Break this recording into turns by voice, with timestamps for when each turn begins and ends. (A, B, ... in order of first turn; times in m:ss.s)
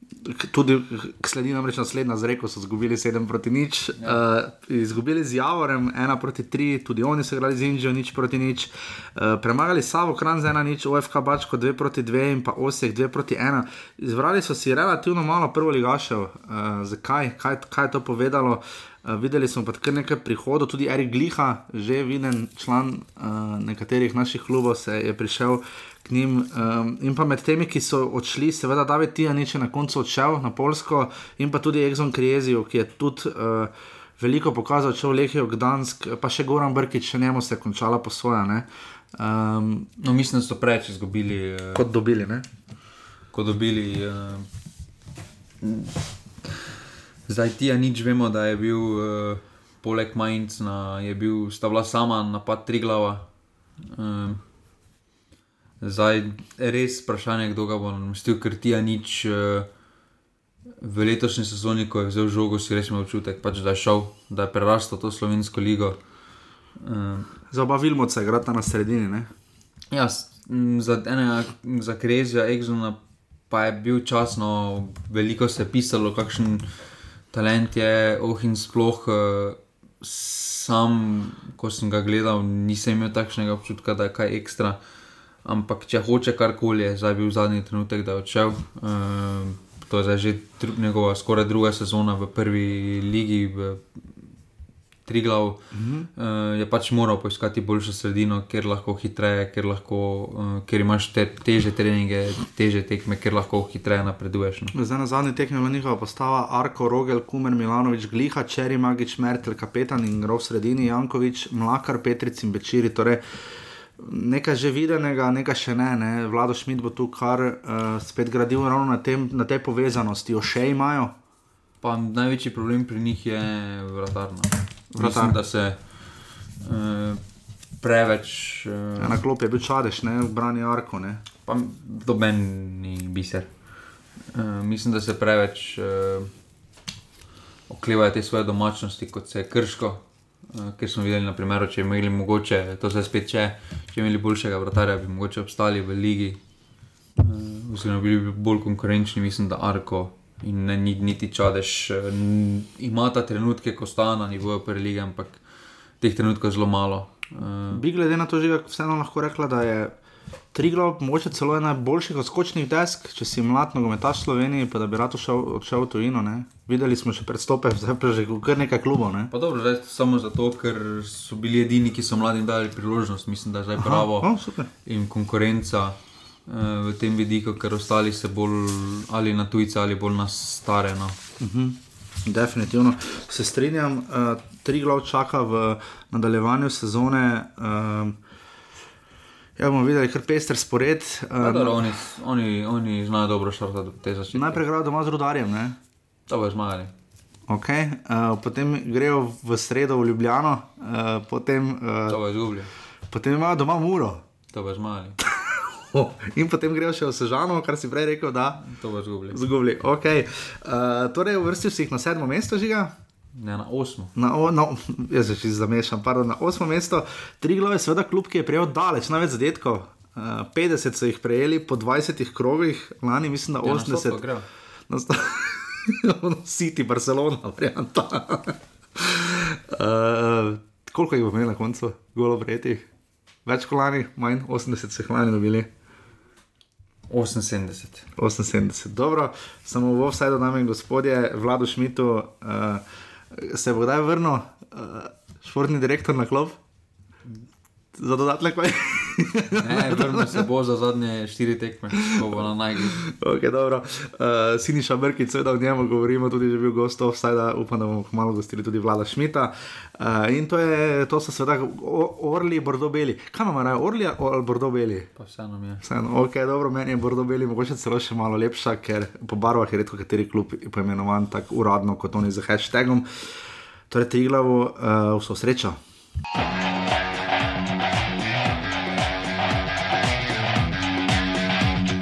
0:00.2-0:39.9 A
0:40.0-0:41.8 B
0:41.7-0:42.4 A
0:43.3-0:44.5 B
0:45.6-0:46.7 B
0:47.3-0:53.3 B
0:53.8-0:54.4 B
0:55.8-0:59.7 B
1:00.8-1:06.0 B
1:06.8-1:07.3 B
1:07.5-1:09.3 A
1:09.9-1:13.0 B
1:13.5-1:16.7 B
1:17.3-1:24.8 B
1:25.4-1:33.9 B
1:35.0-1:35.6 B
1:35.7-1:36.1 A
1:36.1-1:44.7 B
1:44.7-1:53.2 A
1:54.0-2:01.1 A
2:01.8-2:05.8 B
2:04.9-2:05.4 A
2:06.6-2:07.2 B
2:07.8-2:09.2 B
2:09.0-2:11.2 A
2:11.4-2:13.5 B
2:14.3-2:16.3 B
2:17.7-2:26.4 B
2:27.2-2:35.4 B
2:36.0-2:37.8 B
2:37.7-2:39.9 A
2:40.5-2:49.3 A
2:49.3-2:54.3 B
2:53.8-2:54.7 A
2:54.8-3:01.2 B
3:01.4-3:08.2 A
3:09.6-3:12.1 A
3:11.4-3:14.6 B
3:14.3-3:15.8 A
3:16.3-3:16.9 B
3:17.5-3:22.2 A
3:22.1-3:22.7 B
3:23.1-3:24.2 A
3:24.5-3:25.2 B
3:25.2-3:28.7 A
3:28.6-3:29.4 B
3:29.3-3:32.9 A
3:33.3-3:34.1 B
3:34.2-3:44.2 A
3:43.6-3:44.5 B
3:44.9-3:52.8 A
3:53.4-3:55.7 A
3:57.1-3:58.0 B
3:58.2-4:06.6 A
4:07.9-4:10.4 A
4:09.6-4:13.0 B
4:12.0-4:25.1 A
4:25.2-4:25.8 B
4:25.8-4:33.3 A
4:33.9-4:35.8 A